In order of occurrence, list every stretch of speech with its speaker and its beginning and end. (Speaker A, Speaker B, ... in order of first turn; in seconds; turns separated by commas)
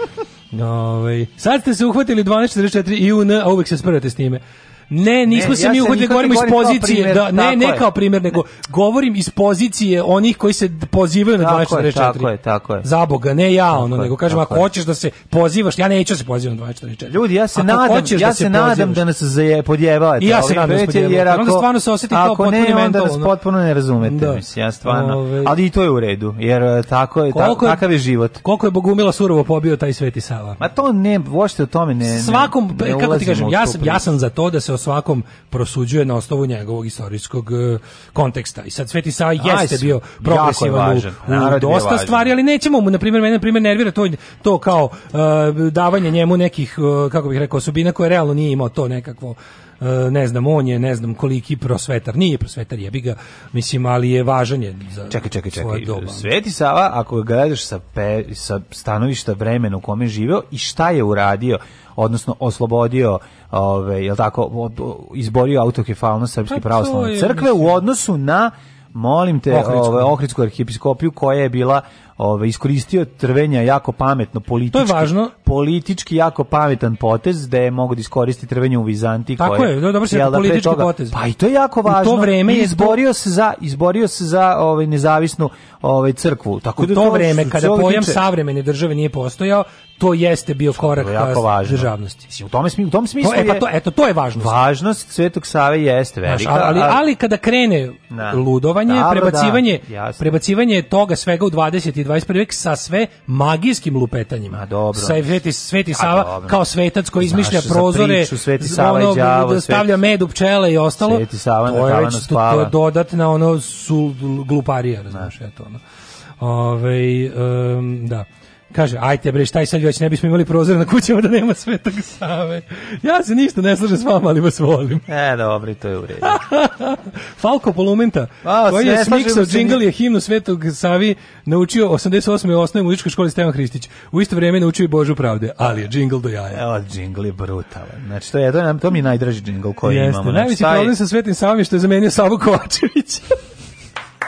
Speaker A: 0.5-12.3, Speaker B: 5.3-7.8, Speaker B: 11.4-12.9, Speaker A: 12.8-19.0, Speaker B: 13.7-14.6, Speaker B: 17.1-28.4, Speaker A: 20.2-23.3, Speaker A: 24.0-25.5, Speaker A: 27.3-27.9, Speaker A: 28.4-30.6, Speaker B: 30.6-34.1, Speaker A: 32.1-56.3, Speaker B: 39.4-42.3, Speaker B: 55.1-88.2, Speaker A: 66.5-67.8, Speaker A: 69.5-70.1, Speaker A: 74.7-75.3, Speaker A: 79.4-81.2, Speaker A: 81.8-83.0, Speaker A: 86.8-92.2, Speaker B: 90.7-93.7, Speaker A: 93.2-94.5, Speaker B: 94.3-97.0, Speaker A: 96.2-115.8, Speaker B: 98.1-100.3, Speaker B: 104.5-105.3, Speaker B: 105.9-106.6, Speaker B: 107.2-110.0, Speaker B: 111.0-112.7, Speaker A: 116.4-125.0, Speaker B: 125.1-126.4, Speaker A: 126.2-136.6, Speaker B: 128.4-129.8, Speaker B: 136.5-140.9, Speaker A: 139.8-143.3